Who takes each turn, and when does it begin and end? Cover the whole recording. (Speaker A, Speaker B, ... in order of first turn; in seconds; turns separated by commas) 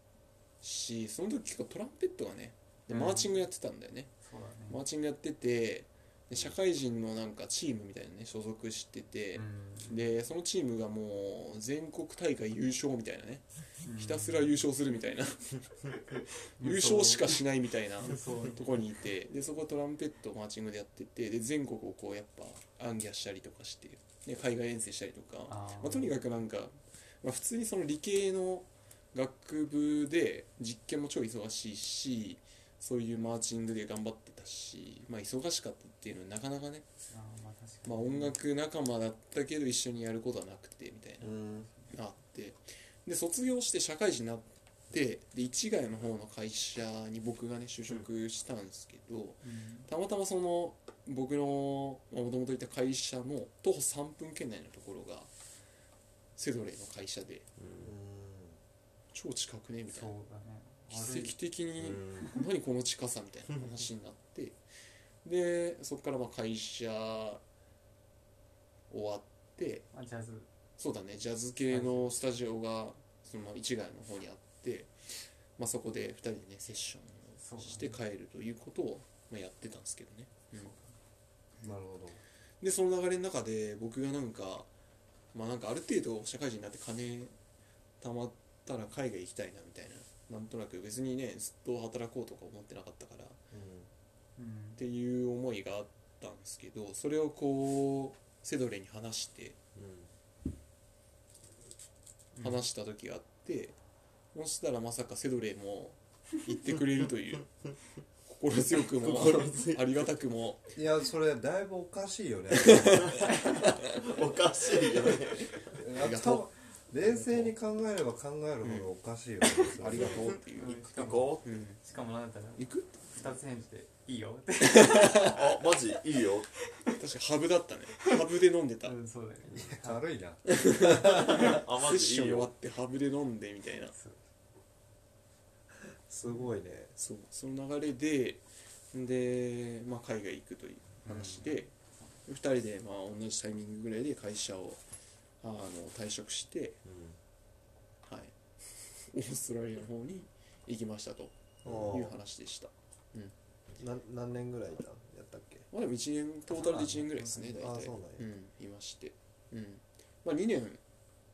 Speaker A: 0.6-4.1, Speaker B: 2.9-3.3, Speaker B: 4.2-4.8, Speaker A: 4.7-15.6, Speaker B: 9.3-10.1, Speaker B: 13.8-14.6, Speaker B: 16.2-17.4, Speaker A: 16.6-36.9, Speaker B: 18.0-18.7, Speaker B: 25.5-26.1, Speaker B: 37.1-38.4, Speaker A: 37.8-41.4, Speaker C: 41.2-41.7, Speaker A: 41.9-55.3, Speaker B: 49.4-49.9, Speaker A: 56.4-57.5, Speaker D: 57.6-57.9, Speaker C: 57.8-58.6, Speaker A: 59.1-60.1, Speaker B: 59.9-61.3, Speaker A: 60.9-64.6, Speaker D: 61.8-62.3, Speaker A: 65.2-67.4, Speaker A: 68.9-69.9, Speaker B: 69.9-70.5, Speaker A: 70.8-80.7, Speaker B: 71.7-72.1, Speaker B: 77.4-78.0, Speaker B: 80.5-81.0, Speaker C: 81.6-82.2, Speaker A: 82.6-84.7, Speaker A: 85.3-87.3, Speaker A: 88.0-93.4, Speaker D: 93.5-93.8, Speaker B: 94.4-94.8, Speaker A: 94.8-99.6, Speaker D: 99.7-100.1, Speaker B: 102.3-102.6, Speaker A: 102.4-103.8, Speaker A: 104.3-107.5, Speaker A: 108.2-110.7, Speaker D: 108.8-110.1, Speaker C: 110.8-113.3, Speaker A: 112.6-113.7, Speaker D: 112.9-115.8, Speaker C: 115.7-120.4, Speaker A: 115.9-117.5, Speaker A: 118.6-118.9, Speaker A: 119.7-120.8, Speaker B: 120.5-125.4, Speaker D: 120.6-121.5, Speaker A: 121.4-121.8, Speaker A: 122.6-123.2, Speaker A: 124.8-125.3, Speaker D: 125.1-126.5, Speaker B: 126.7-127.0, Speaker A: 127.0-128.9, Speaker B: 128.8-130.0, Speaker C: 129.5-131.5, Speaker A: 130.5-133.9, Speaker D: 131.0-132.5, Speaker B: 133.9-134.2, Speaker C: 135.8-136.9, Speaker A: 137.0-141.7, Speaker B: 141.1-142.1, Speaker A: 142.2-144.8, Speaker A: 145.4-146.8, Speaker D: 146.8-147.2, Speaker A: 148.0-148.3, Speaker A: 149.0-153.3, Speaker D: 151.6-151.9, Speaker C: 151.6-152.2, Speaker C: 153.8-155.7, Speaker A: 155.7-160.8, Speaker C: 156.6-158.3, Speaker B: 156.7-157.5